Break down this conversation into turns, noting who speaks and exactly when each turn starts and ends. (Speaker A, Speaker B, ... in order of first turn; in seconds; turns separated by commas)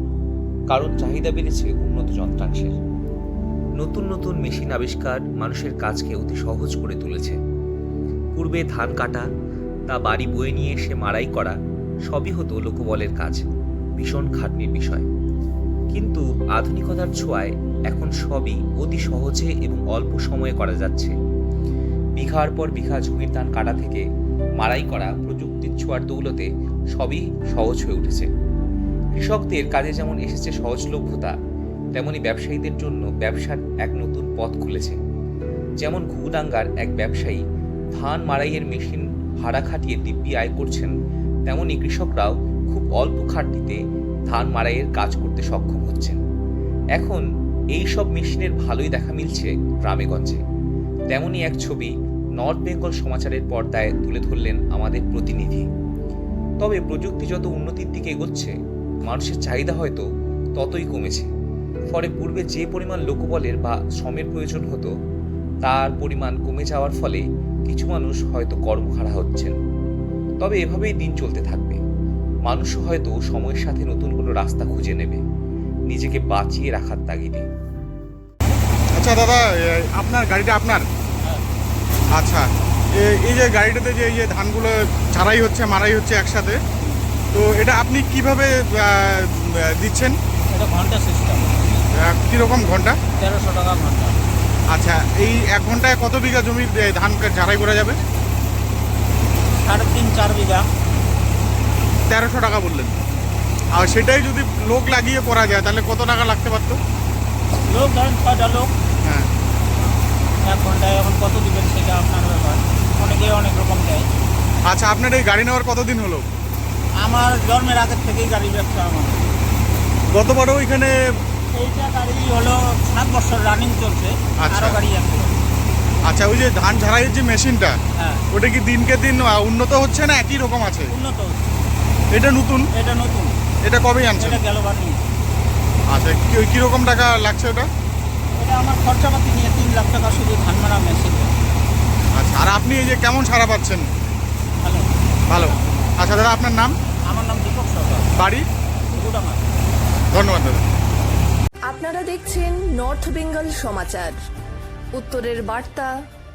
Speaker A: 0.7-2.8, Speaker A: 3.8-7.4, Speaker A: 8.4-9.3, Speaker A: 9.9-11.6, Speaker A: 12.1-13.4, Speaker A: 14.0-15.1, Speaker A: 15.9-21.1, Speaker A: 22.2-24.0, Speaker A: 24.6-28.3, Speaker A: 29.2-31.4, Speaker A: 31.9-35.0, Speaker A: 35.8-37.4, Speaker A: 37.9-40.9, Speaker A: 41.5-46.2, Speaker A: 47.0-50.4, Speaker A: 51.1-55.7, Speaker A: 56.6-58.5, Speaker A: 59.1-61.3, Speaker A: 61.9-64.9, Speaker A: 65.6-69.6, Speaker A: 70.4-71.8, Speaker A: 72.5-75.2, Speaker A: 75.9-77.5, Speaker B: 79.0-80.9, Speaker B: 82.1-86.6, Speaker B: 87.3-90.2, Speaker C: 90.5-91.6, Speaker B: 91.9-93.0, Speaker C: 93.2-94.2, Speaker B: 94.7-98.0, Speaker C: 99.7-100.7, Speaker B: 102.1-102.9, Speaker B: 103.8-106.8, Speaker C: 107.7-108.7, Speaker B: 109.0-109.3, Speaker C: 110.4-114.1, Speaker B: 114.7-116.2, Speaker C: 117.0-119.3, Speaker B: 120.1-121.0, Speaker C: 121.5-125.4, Speaker B: 124.4-124.8, Speaker B: 126.0-127.7, Speaker C: 128.0-128.2, Speaker B: 128.3-130.9, Speaker C: 130.9-131.4, Speaker B: 132.1-132.7, Speaker C: 132.7-133.3, Speaker B: 133.7-134.4, Speaker C: 134.2-135.0, Speaker B: 135.9-137.7, Speaker C: 138.4-141.3, Speaker B: 142.2-143.9, Speaker C: 144.6-145.6, Speaker B: 145.3-146.8, Speaker C: 147.1-148.1, Speaker B: 148.2-148.4, Speaker C: 148.9-149.5, Speaker B: 150.1-150.6, Speaker D: 151.7-154.2, Speaker D: 154.9-155.9